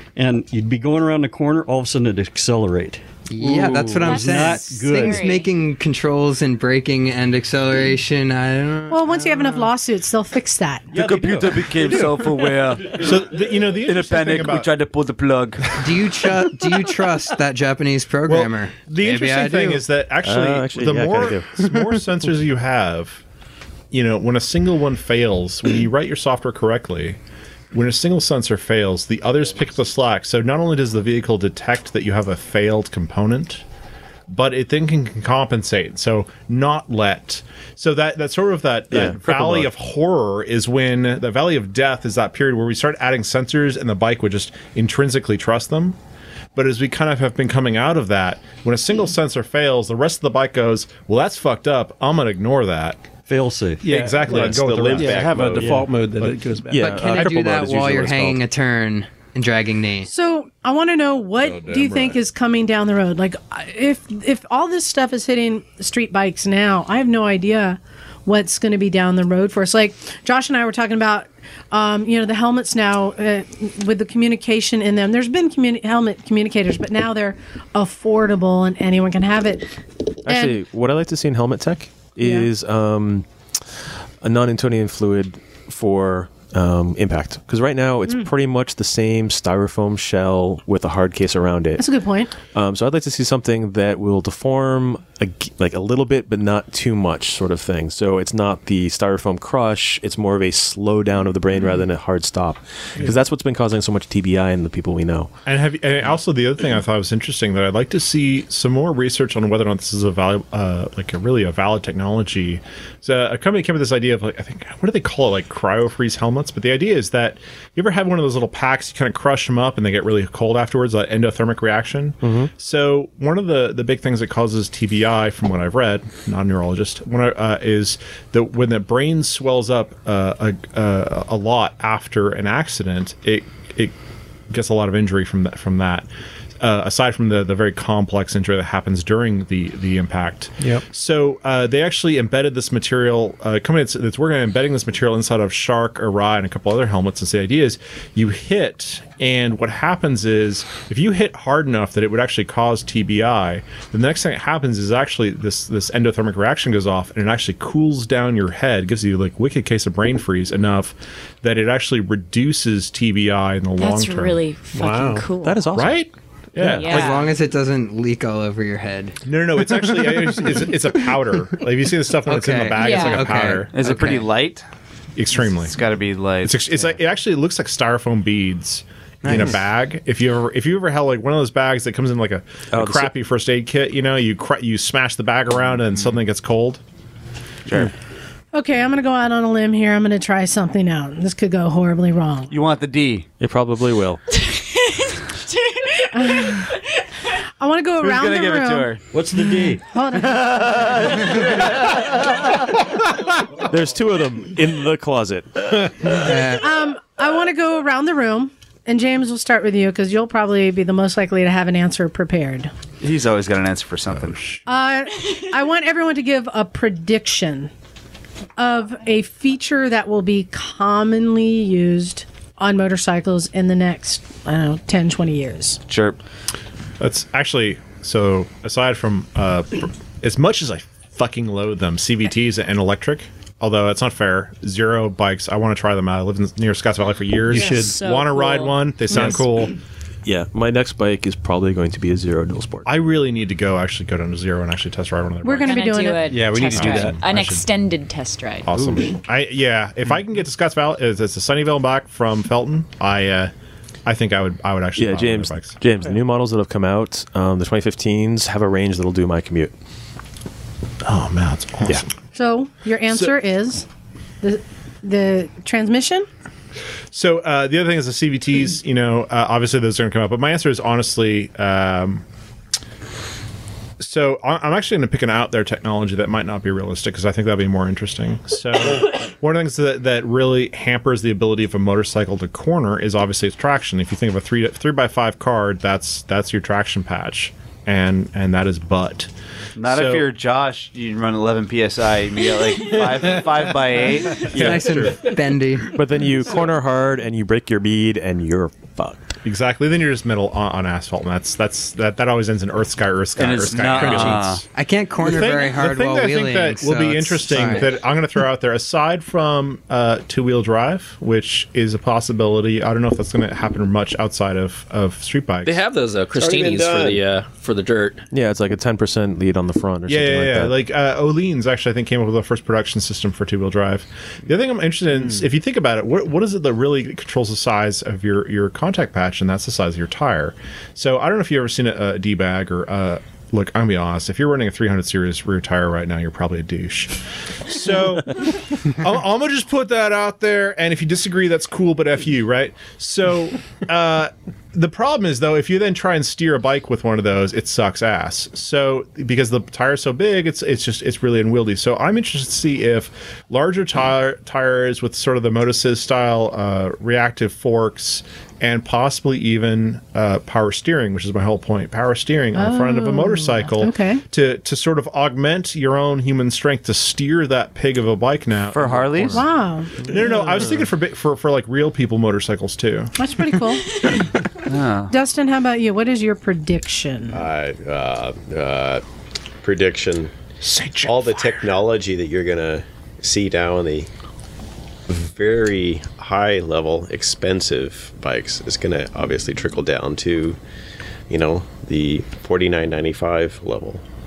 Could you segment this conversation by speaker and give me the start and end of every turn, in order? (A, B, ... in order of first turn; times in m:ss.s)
0:00.2-0:05.2 A
0:03.3-0:09.7 B
0:03.5-0:05.5 C
0:08.9-0:10.9 D
0:10.9-0:11.7 A
0:10.9-0:15.7 E
0:11.8-0:12.1 F
0:12.9-0:14.7 F
0:15.8-0:19.8 B
0:18.3-0:23.2 F
0:20.2-0:21.9 G
0:23.9-0:27.2 F
0:27.7-0:33.6 F
0:34.3-0:46.0 F
0:38.9-0:39.7 G
0:46.5-0:53.0 F
0:53.3-0:53.9 A
0:53.8-0:55.2 F
0:53.8-0:57.2 H
0:54.2-0:55.8 I
0:56.7-0:58.4 G
0:56.8-1:00.1 B
0:57.0-0:57.3 F
1:00.0-1:19.7 D
1:20.2-1:20.6 D
1:20.2-1:23.3 G
1:22.2-1:22.5 D
1:24.2-1:31.9 G
1:31.8-1:32.3 D
1:32.5-1:45.3 G
1:45.4-2:13.9 F
2:02.2-2:02.5 G
2:14.5-2:16.1 F
2:16.6-2:44.4 F
2:43.8-2:45.7 C
2:44.7-2:45.2 H
2:45.4-2:46.0 G
2:45.7-2:47.2 F
2:46.6-2:46.9 G
2:46.6-2:47.3 C
2:46.9-2:49.2 B
2:49.2-2:54.1 F
2:52.3-2:54.2 B
2:52.7-2:53.3 C
2:53.7-2:54.6 E
2:55.2-2:55.8 F
2:55.4-2:57.0 E
2:56.4-3:06.8 F
3:02.7-3:03.1 G
3:08.5-3:12.5 D
3:12.5-3:13.3 E
3:13.4-3:14.2 G
3:14.4-3:16.7 C
3:16.1-3:16.7 D
3:17.6-3:18.9 D
3:18.0-3:19.0 E
3:19.1-3:19.8 A
3:19.7-3:21.1 D
3:20.2-3:22.4 E
3:23.6-3:26.3 G
3:26.1-3:26.7 E
3:26.6-3:32.7 D
3:33.0-3:34.6 E
3:34.7-3:37.7 D
3:38.6-3:45.8 D
3:45.9-3:46.2 E
3:47.0-3:59.7 F
3:57.5-3:58.0 H
3:57.6-3:59.4 C
4:00.2-4:02.9 G
4:02.9-4:05.9 F
4:05.4-4:06.3 D
4:05.6-4:09.0 C
4:06.3-4:07.2 H
4:06.5-4:07.7 F
4:08.6-4:13.5 F
4:14.0-4:15.8 F
4:15.0-4:19.7 G
4:21.0-4:22.1 F
4:22.3-4:23.9 D
4:24.4-4:26.3 D
4:27.1-4:32.2 F
4:34.0-4:49.3 F
4:49.8-4:54.8 E
4:49.8-4:50.3 F
4:54.4-4:56.0 B
4:54.4-4:55.2 F
4:55.9-4:59.3 G
4:59.4-5:04.6 F
5:03.4-5:04.6 E
5:04.7-5:08.0 B
5:05.2-5:15.8 F
5:15.6-5:18.2 J
5:16.3-5:17.2 I
5:18.3-5:20.8 G
5:20.1-6:09.4 F
6:02.5-6:04.2 D
6:08.7-6:09.4 E
6:09.3-6:10.4 D
6:10.0-6:13.1 F
6:13.2-6:14.0 D
6:14.6-6:15.1 E
6:15.1-6:17.4 D
6:17.3-6:19.0 I
6:19.6-6:20.3 I
6:20.6-6:21.5 F
6:21.0-6:24.1 I
6:25.1-6:30.6 I
6:31.3-6:34.0 I